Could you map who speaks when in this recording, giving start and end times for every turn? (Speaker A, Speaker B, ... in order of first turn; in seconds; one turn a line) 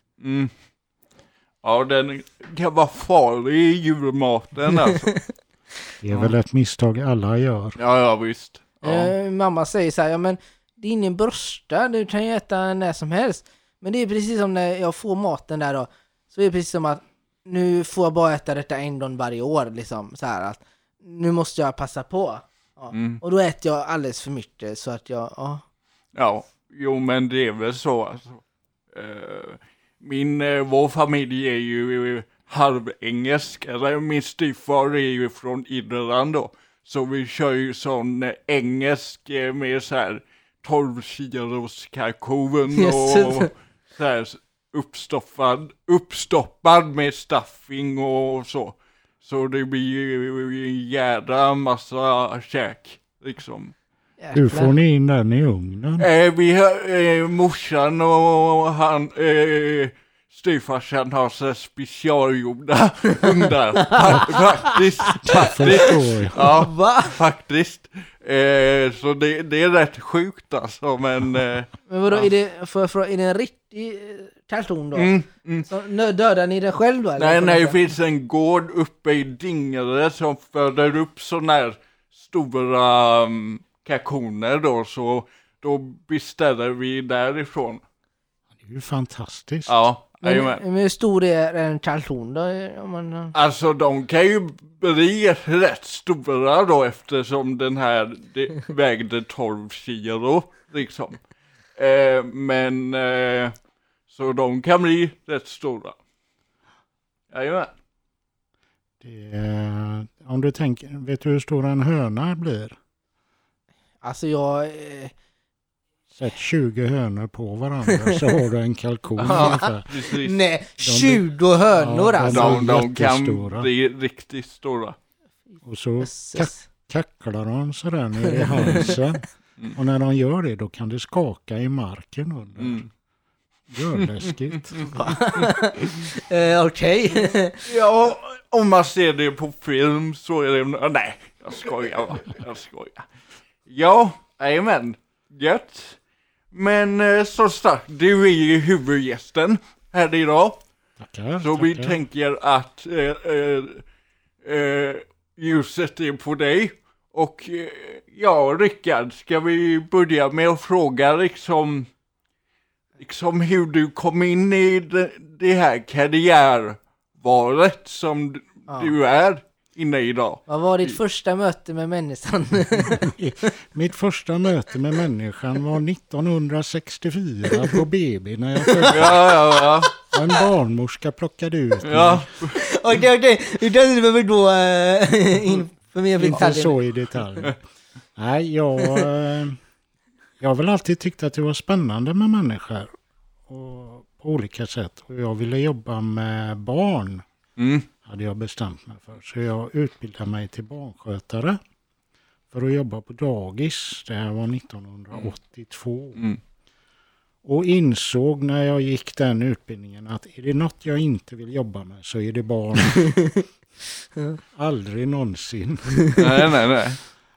Speaker A: 0.2-0.5
Speaker A: 1.6-5.1
Speaker B: 6.0-7.8
Speaker A: 6.1-6.3
Speaker A: 7.8-9.1
Speaker C: 8.8-25.6
Speaker A: 22.9-23.2
Speaker A: 26.1-28.4
Speaker A: 28.9-53.7
Speaker C: 42.7-43.5
Speaker C: 54.2-54.7
Speaker B: 54.3-56.1
Speaker A: 56.0-72.3
Speaker C: 63.8-67.1
Speaker B: 65.2-66.5
Speaker C: 71.9-75.1
Speaker A: 74.9-75.7
Speaker C: 75.6-77.8
Speaker A: 77.2-87.8
Speaker B: 88.6-89.7
Speaker A: 89.7-90.6
Speaker C: 90.2-93.3
Speaker A: 93.3-101.2
Speaker A: 101.8-103.5
Speaker A: 104.1-106.0
Speaker A: 107.3-107.7
Speaker B: 109.0-112.8
Speaker C: 114.0-115.1
Speaker B: 116.1-119.8
Speaker A: 119.2-120.3
Speaker C: 119.2-122.6
Speaker B: 120.8-123.7
Speaker A: 122.2-125.0
Speaker B: 125.6-132.8
Speaker C: 126.0-126.7
Speaker C: 128.2-128.9
Speaker A: 132.6-132.9
Speaker B: 133.7-135.1
Speaker A: 133.9-134.9
Speaker C: 134.8-137.7
Speaker A: 137.7-143.1
Speaker A: 143.7-146.0
Speaker A: 146.5-150.6
Speaker B: 151.0-152.0
Speaker A: 151.4-153.8
Speaker A: 154.4-161.9
Speaker A: 163.0-171.0
Speaker C: 168.7-168.9
Speaker C: 170.5-173.0
Speaker B: 172.9-179.3
Speaker C: 178.6-179.3
Speaker A: 178.9-179.9
Speaker B: 180.0-182.3
Speaker A: 181.8-182.6
Speaker C: 182.5-186.8
Speaker B: 186.2-187.6
Speaker B: 188.2-189.6
Speaker B: 190.4-192.9
Speaker B: 193.5-197.2
Speaker A: 197.6-197.9
Speaker B: 198.0-201.6
Speaker B: 202.5-206.2
Speaker B: 207.4-213.1
Speaker C: 212.9-213.4
Speaker B: 214.5-216.5
Speaker A: 216.2-217.0